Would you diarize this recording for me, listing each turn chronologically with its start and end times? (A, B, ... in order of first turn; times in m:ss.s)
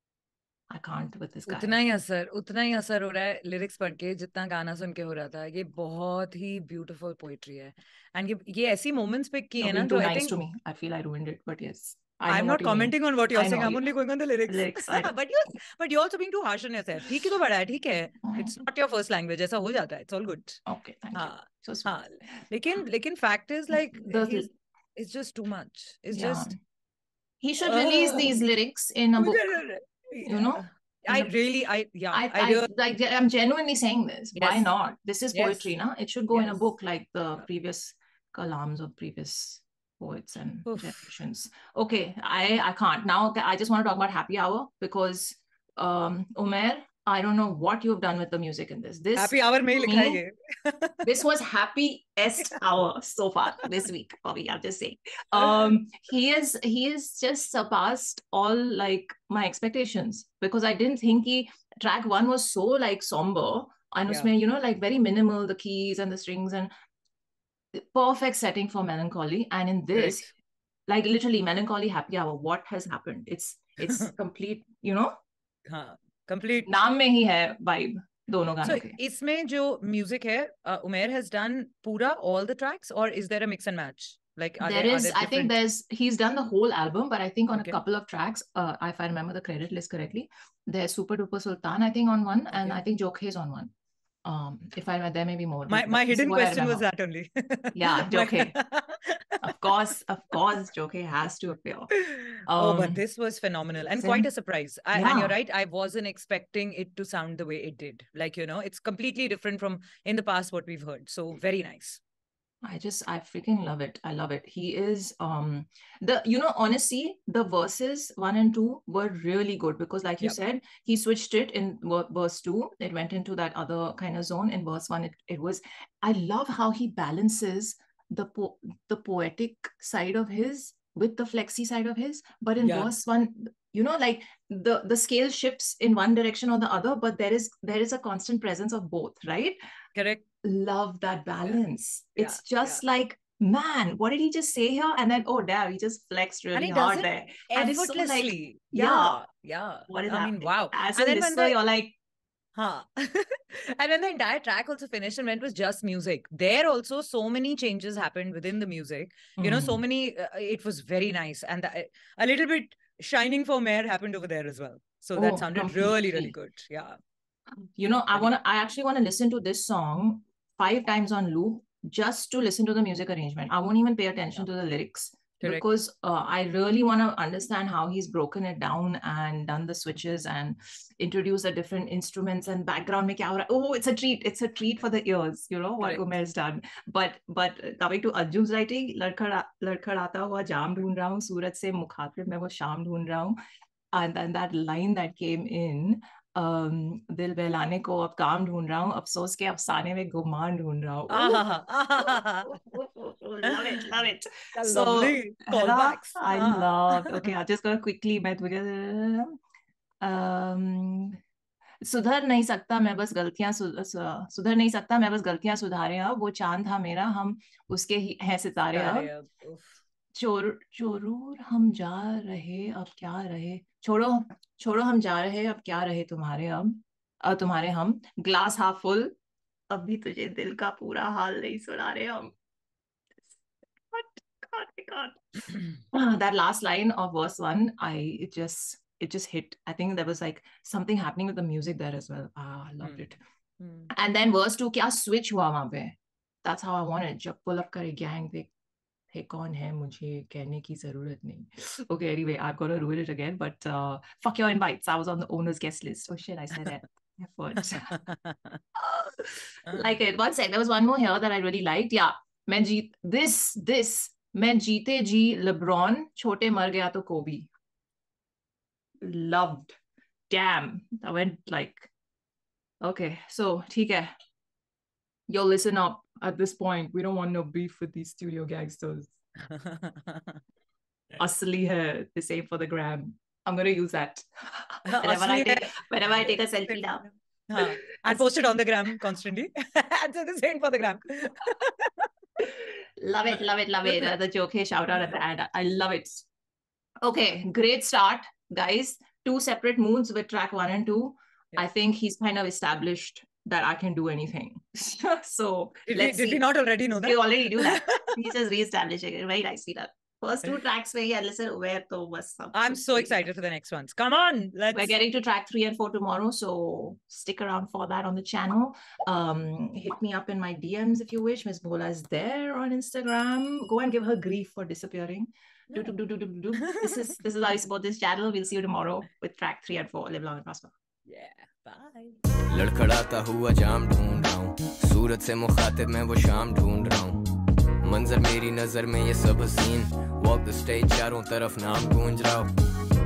0:00.7-0:01.8 A
0:01.5-0:10.4 B
0:09.6-0:13.9 A
0:12.3-0:20.6 B
0:14.5-0:15.1 A
0:18.2-0:18.6 A
0:20.7-0:21.9 A
0:21.1-0:26.5 B
0:23.7-0:24.5 A
0:26.1-0:26.6 A
0:27.4-0:29.6 A
0:27.6-0:28.4 B
0:29.2-0:32.7 B
0:30.2-0:31.3 A
0:32.1-0:50.2 A
0:34.4-0:34.7 B
0:35.3-0:35.7 B
0:36.3-0:36.6 B
0:40.7-0:41.1 B
0:49.2-0:51.1 B
0:51.0-1:06.7 A
0:55.4-0:55.8 B
1:07.7-1:10.3 A
1:10.0-1:10.3 B
1:10.9-1:15.1 A
1:15.7-1:16.8 B
1:16.7-1:19.0 A
1:18.6-1:25.6 B
1:24.6-1:33.7 A
1:27.5-1:27.8 B
1:32.5-1:32.8 B
1:34.2-1:36.8 A
1:35.7-1:39.7 B
1:37.7-1:38.6 A
1:39.4-1:43.0 A
1:42.0-1:52.0 B
1:44.0-1:44.3 A
1:44.9-1:45.4 A
1:52.6-2:19.6 A
2:12.6-2:12.9 B
2:20.0-2:20.2 B
2:20.4-2:29.2 A
2:22.2-2:22.8 B
2:26.5-2:31.6 B
2:29.9-2:32.0 A
2:32.6-2:47.0 B
2:39.4-2:39.8 A
2:45.2-2:46.3 A
2:47.8-3:13.4 A
3:13.9-3:21.4 A
3:21.1-3:22.6 B
3:22.0-3:29.4 A
3:23.5-3:23.8 B
3:24.6-3:27.3 B
3:30.0-3:31.2 A
3:31.8-3:39.1 A
3:38.7-3:39.8 B
3:40.2-3:49.1 A
3:49.7-3:52.4 A
3:53.9-4:03.2 A
4:03.6-4:03.9 B
4:03.9-4:08.5 A
4:09.1-4:17.9 A
4:17.8-4:18.6 B
4:18.8-4:27.5 A
4:29.0-4:29.8 A
4:30.3-4:31.9 A
4:32.8-4:34.1 A
4:35.3-4:39.1 A
4:39.4-4:40.4 B
4:41.2-4:47.0 A
4:44.9-4:52.1 B
4:47.6-4:48.2 A
4:52.4-4:56.3 A
4:53.8-4:54.1 B
4:57.0-5:06.4 A
5:05.9-5:08.2 B
5:06.9-5:13.1 A
5:12.5-5:14.9 B
5:14.7-5:30.7 A
5:26.6-5:27.1 B
5:31.1-5:32.2 B
5:32.5-5:37.2 C
5:37.8-5:42.5 C